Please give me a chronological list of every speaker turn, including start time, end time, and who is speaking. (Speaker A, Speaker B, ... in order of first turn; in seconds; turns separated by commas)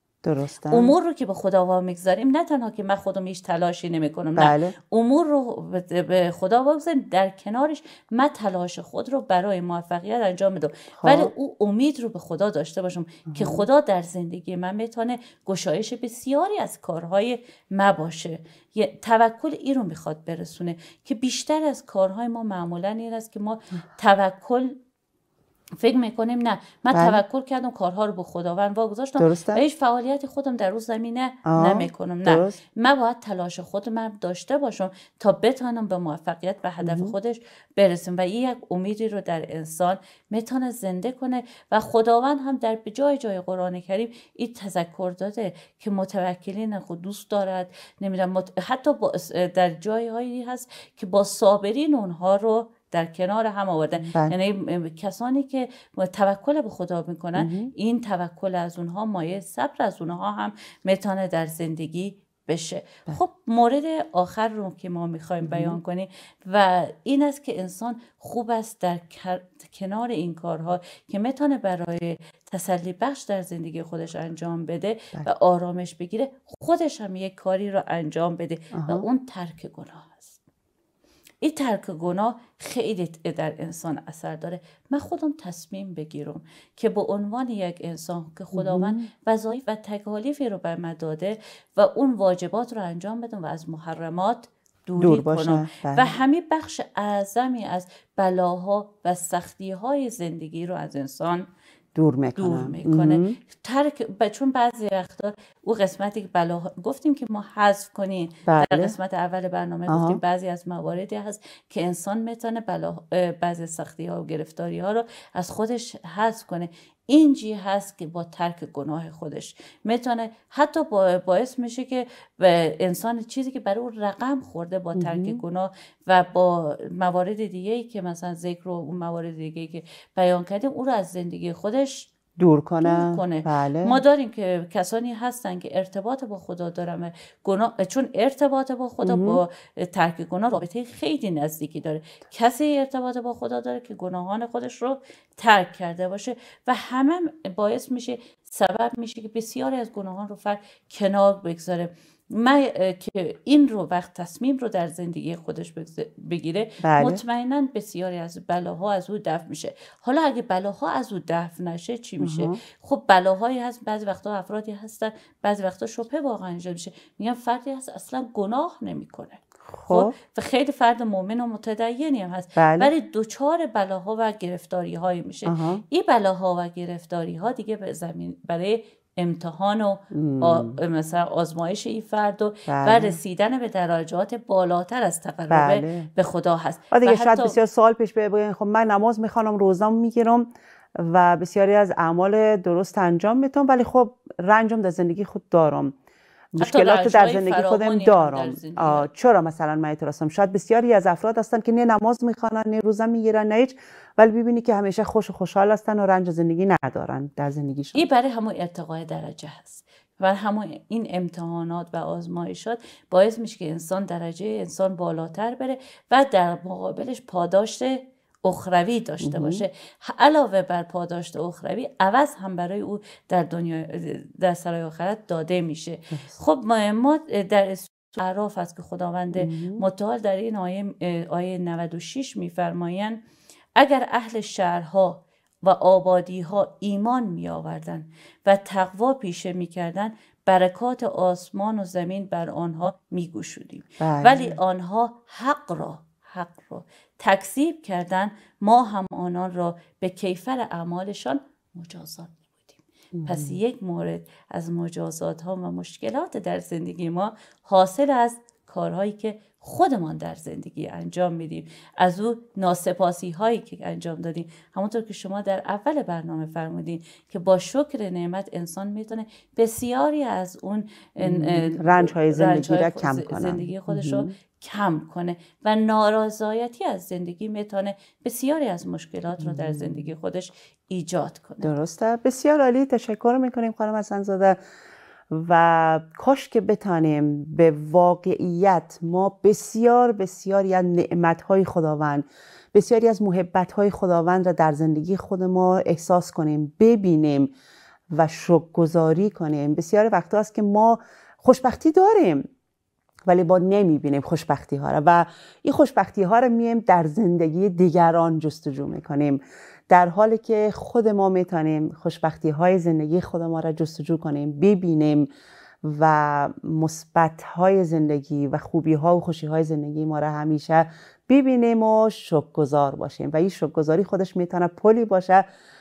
Speaker A: 0.2-0.9, Speaker B: 0.7-24.8, Speaker A: 4.4-4.7, Speaker A: 11.0-11.3, Speaker A: 13.3-13.6, Speaker B: 25.8-80.4, Speaker A: 26.9-27.2, Speaker A: 29.2-29.6, Speaker A: 31.4-32.6, Speaker A: 36.8-37.1, Speaker A: 54.1-54.4, Speaker A: 57.4-57.7, Speaker A: 65.4-65.8, Speaker A: 78.7-79.1, Speaker B: 81.4-101.4, Speaker A: 88.5-89.1, Speaker A: 95.0-96.1, Speaker A: 101.9-103.4, Speaker B: 102.3-132.1, Speaker A: 108.5-108.9, Speaker A: 109.9-110.2, Speaker A: 125.0-125.4, Speaker A: 132.4-134.0, Speaker B: 132.8-187.6, Speaker A: 139.0-139.4, Speaker A: 156.8-157.2, Speaker A: 162.2-162.6, Speaker A: 169.7-170.2, Speaker A: 172.6-172.9, Speaker A: 175.4-175.8, Speaker A: 180.1-180.8, Speaker A: 182.7-183.2, Speaker A: 185.5-186.1, Speaker A: 186.9-195.9, Speaker A: 196.5-208.0, Speaker B: 196.6-199.1, Speaker B: 207.9-233.2, Speaker A: 219.2-219.6, Speaker A: 229.3-229.8, Speaker B: 233.8-281.7, Speaker A: 244.0-244.6, Speaker A: 253.1-253.6, Speaker A: 271.2-274.3, Speaker A: 279.4-280.1, Speaker A: 281.6-284.6, Speaker A: 285.3-297.5, Speaker A: 298.1-302.4, Speaker A: 303.2-315.3, Speaker A: 315.8-325.4